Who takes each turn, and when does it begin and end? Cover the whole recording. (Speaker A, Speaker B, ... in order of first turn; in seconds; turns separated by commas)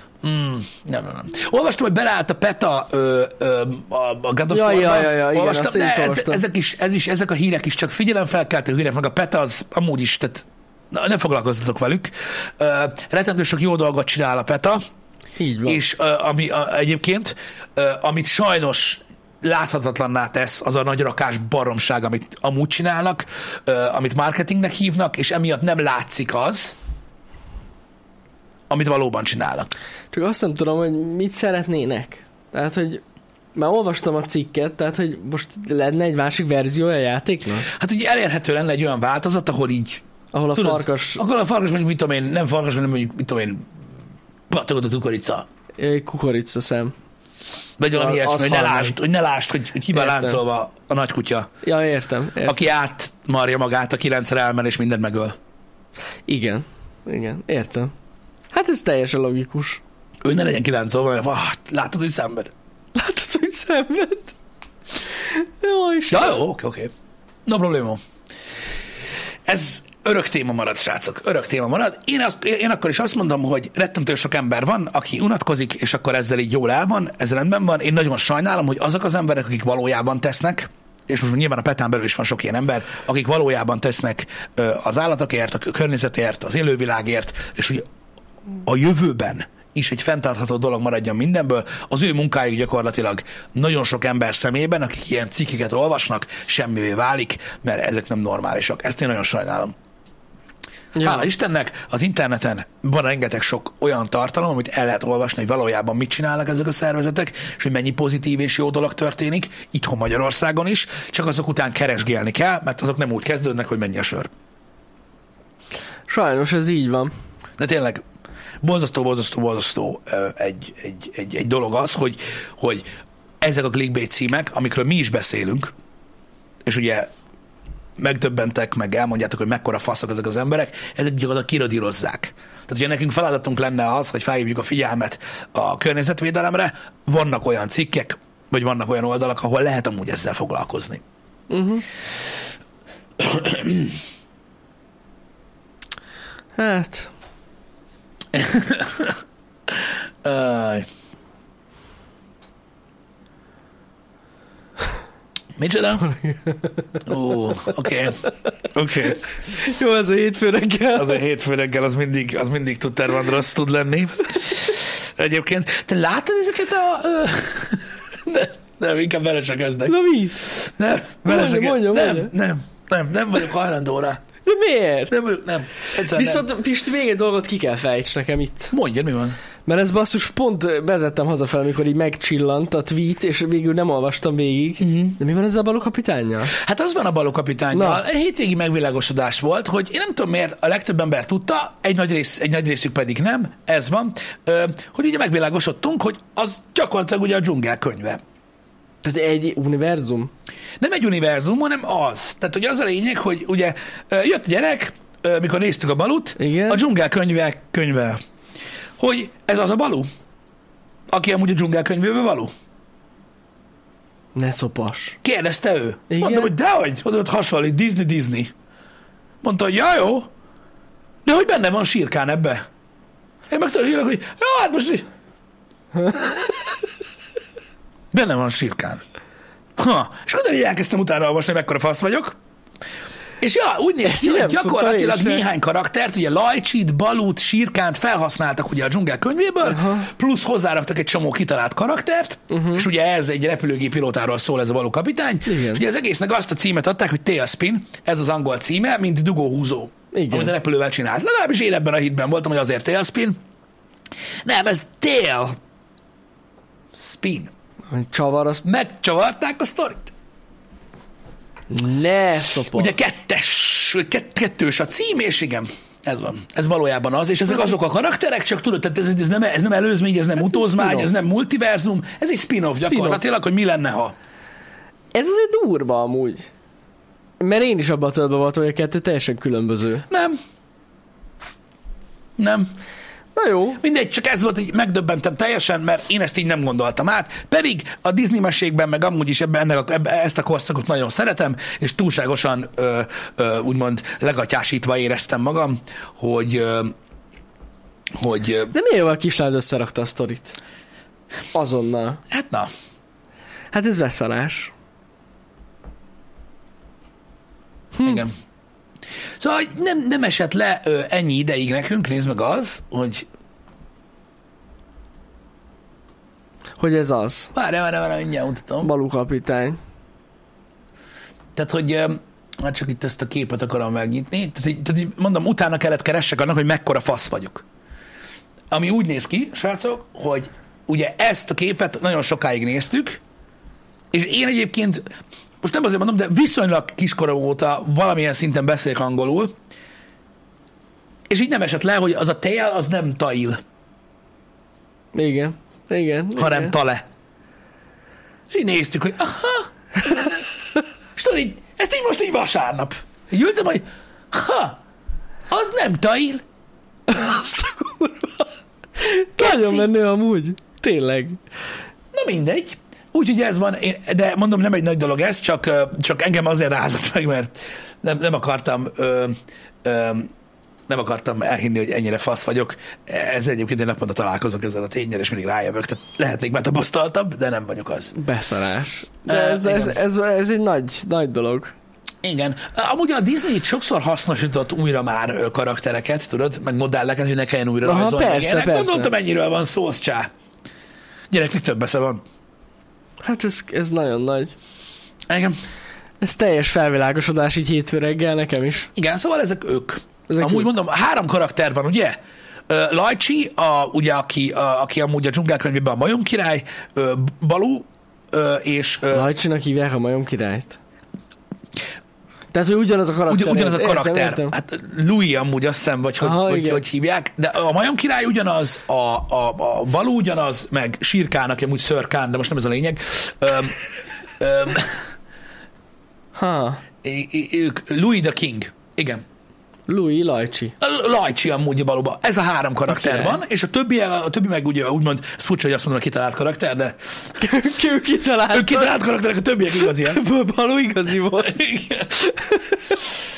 Speaker A: 0.2-14.8, Speaker B: 4.5-6.4, Speaker B: 15.4-15.8, Speaker A: 15.7-26.7, Speaker A: 28.7-29.7, Speaker B: 30.1-33.0, Speaker B: 33.5-37.7, Speaker A: 37.7-40.0, Speaker B: 40.3-41.2, Speaker A: 40.5-43.7, Speaker A: 44.5-45.5, Speaker B: 45.8-46.9, Speaker A: 47.8-51.5, Speaker B: 47.9-49.0, Speaker B: 49.9-50.4, Speaker B: 51.6-52.7, Speaker A: 52.4-55.4, Speaker B: 56.3-57.9, Speaker B: 58.5-59.8, Speaker A: 60.2-62.5, Speaker B: 62.9-64.3, Speaker B: 65.2-66.4, Speaker A: 66.1-66.9, Speaker A: 67.5-68.0, Speaker A: 69.5-87.8, Speaker A: 88.6-99.7, Speaker B: 100.9-101.3, Speaker A: 101.0-114.3, Speaker B: 116.1-117.1, Speaker A: 117.6-118.0, Speaker A: 118.6-122.8, Speaker A: 123.4-125.7, Speaker A: 126.6-127.1, Speaker A: 128.0-141.0, Speaker B: 141.5-141.8, Speaker A: 143.2-144.0, Speaker B: 146.6-147.1, Speaker A: 148.3-149.2, Speaker A: 149.7-150.9, Speaker A: 155.6-156.1, Speaker B: 156.1-156.7, Speaker A: 157.0-159.2, Speaker B: 159.5-161.2, Speaker A: 160.9-174.2, Speaker B: 169.9-170.4, Speaker B: 171.2-172.3, Speaker B: 174.4-175.2, Speaker A: 175.1-176.4, Speaker B: 175.9-178.7, Speaker A: 178.7-179.4, Speaker B: 179.7-186.5, Speaker A: 184.8-185.2, Speaker A: 186.5-198.2, Speaker B: 187.7-188.0, Speaker B: 199.0-200.3, Speaker A: 200.8-208.2, Speaker B: 206.4-206.8, Speaker A: 209.0-210.1, Speaker A: 211.1-212.5, Speaker B: 214.3-215.2, Speaker A: 215.2-218.5, Speaker B: 216.1-216.5, Speaker A: 219.4-220.3, Speaker A: 221.2-222.6, Speaker A: 223.5-225.1, Speaker B: 226.0-226.3, Speaker A: 228.1-229.0, Speaker A: 229.8-232.4, Speaker A: 233.4-253.4, Speaker B: 234.0-235.4, Speaker B: 239.6-240.1, Speaker B: 242.5-242.9, Speaker B: 245.4-245.8, Speaker B: 250.1-250.5, Speaker A: 254.4-255.6, Speaker A: 256.9-257.5, Speaker B: 257.9-258.6, Speaker A: 258.6-260.1, Speaker B: 261.7-262.9, Speaker A: 262.7-274.1, Speaker B: 270.5-271.1, Speaker B: 272.8-273.2, Speaker B: 275.1-276.5, Speaker B: 277.4-280.1, Speaker A: 280.1-280.4, Speaker A: 282.4-282.7, Speaker B: 283.4-283.8, Speaker A: 283.8-296.9, Speaker A: 298.1-298.7, Speaker B: 298.7-300.6, Speaker B: 301.5-302.2, Speaker A: 302.3-302.7, Speaker B: 303.7-304.7, Speaker B: 307.9-308.2, Speaker A: 308.0-308.3, Speaker A: 309.4-313.2, Speaker B: 316.8-317.5, Speaker A: 317.5-318.9, Speaker B: 318.8-319.8, Speaker A: 321.5-327.6, Speaker A: 328.7-333.2, Speaker A: 334.1-339.5, Speaker A: 341.3-343.6, Speaker B: 345.1-346.7, Speaker A: 346.4-347.0, Speaker A: 348.5-350.4, Speaker A: 351.1-354.8, Speaker A: 355.5-356.4, Speaker B: 357.1-361.4, Speaker A: 359.4-359.9, Speaker A: 362.1-367.5, Speaker A: 368.0-370.3, Speaker A: 370.9-378.1, Speaker B: 378.1-381.7, Speaker A: 379.3-380.0, Speaker A: 382.2-390.3, Speaker B: 387.8-389.1, Speaker A: 391.3-392.2, Speaker B: 393.2-394.5, Speaker A: 395.3-395.6, Speaker B: 396.2-398.9, Speaker A: 398.9-402.1, Speaker B: 400.3-400.7, Speaker A: 402.7-409.3, Speaker B: 409.1-410.8, Speaker B: 412.5-414.5, Speaker A: 413.3-425.0, Speaker B: 416.2-416.8, Speaker B: 426.4-426.8, Speaker A: 427.0-429.2, Speaker B: 429.9-430.7, Speaker A: 430.8-437.0, Speaker B: 432.9-433.4, Speaker B: 437.4-438.9, Speaker A: 438.5-440.2, Speaker B: 439.7-442.9, Speaker A: 441.4-442.1